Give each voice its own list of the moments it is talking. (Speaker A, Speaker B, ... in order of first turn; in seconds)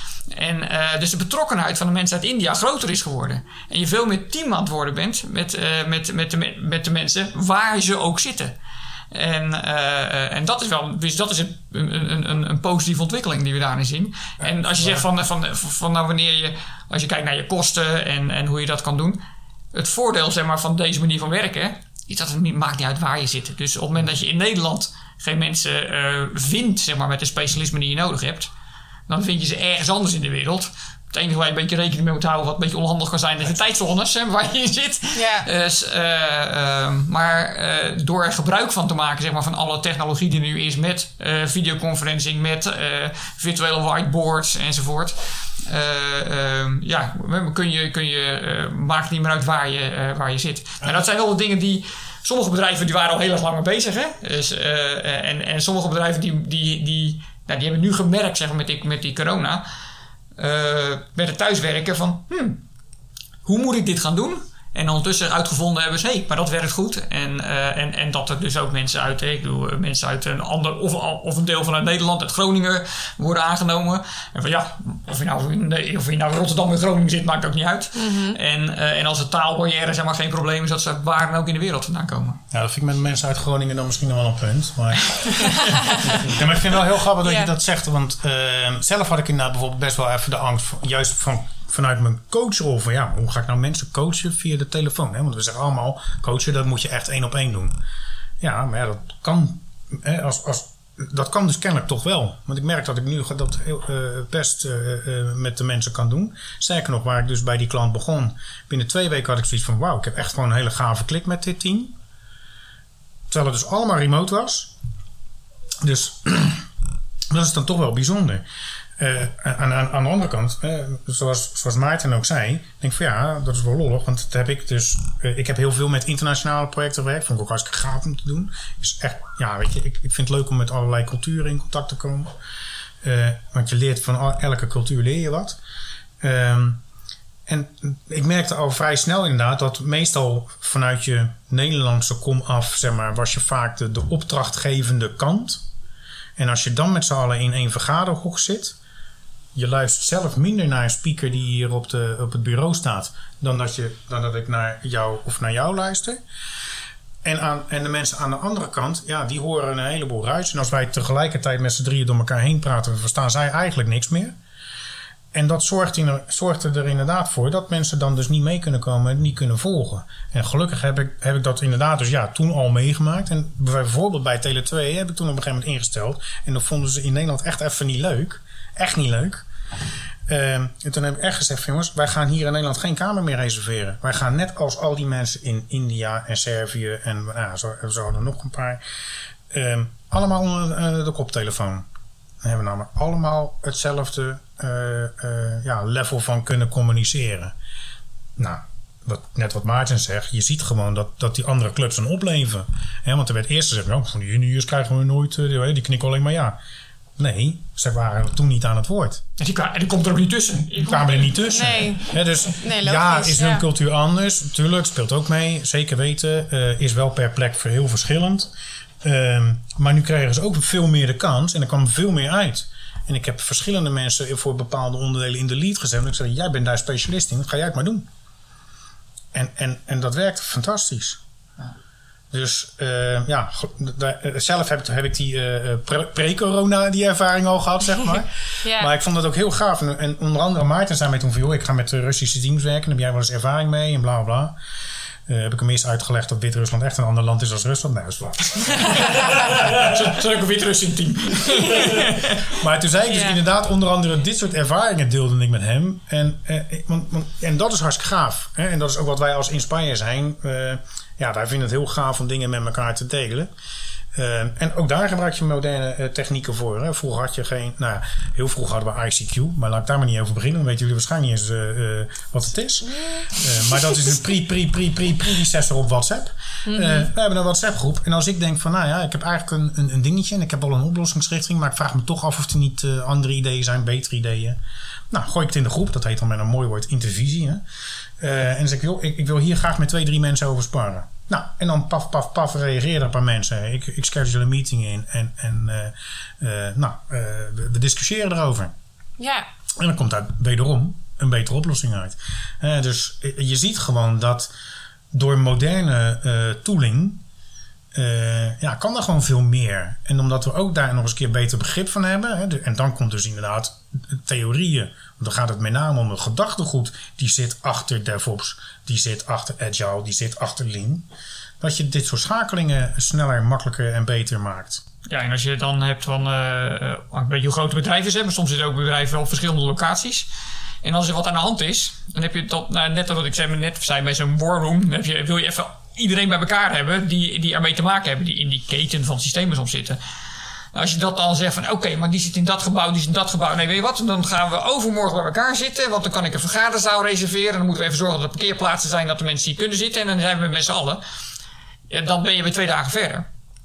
Speaker A: 0.3-8.6, 9.1-19.2, 19.7-28.5, 29.1-59.6, 60.4-62.6, 63.4-82.4, 209.4-211.6, 248.9-252.6, 325.1-330.3, 330.8-340.0, 340.7-351.0, 351.9-353.3
Speaker B: 14.4-15.1, 82.5-97.7, 98.4-112.0, 113.3-114.7, 115.8-116.7, 117.3-118.4, 119.0-132.3, 133.0-135.6, 136.2-136.8, 137.5-145.6, 146.4-148.8, 149.5-156.2, 157.2-164.3, 165.3-179.4, 180.3-188.8, 189.5-191.9, 192.4-197.5, 198.4-206.6, 207.2-209.2, 210.8-228.1, 229.3-231.2, 232.3-244.6, 245.3-250.1, 251.6-263.5, 264.1-284.6, 285.1-287.6, 288.2-298.7, 299.8-304.5, 305.1-307.2, 307.9-321.1, 321.6-324.8
Speaker C: 35.1-35.5, 77.9-78.4, 85.3-86.2, 87.2-87.5, 211.5-213.7, 238.6-238.9, 253.1-253.4, 276.6-277.1, 299.2-299.4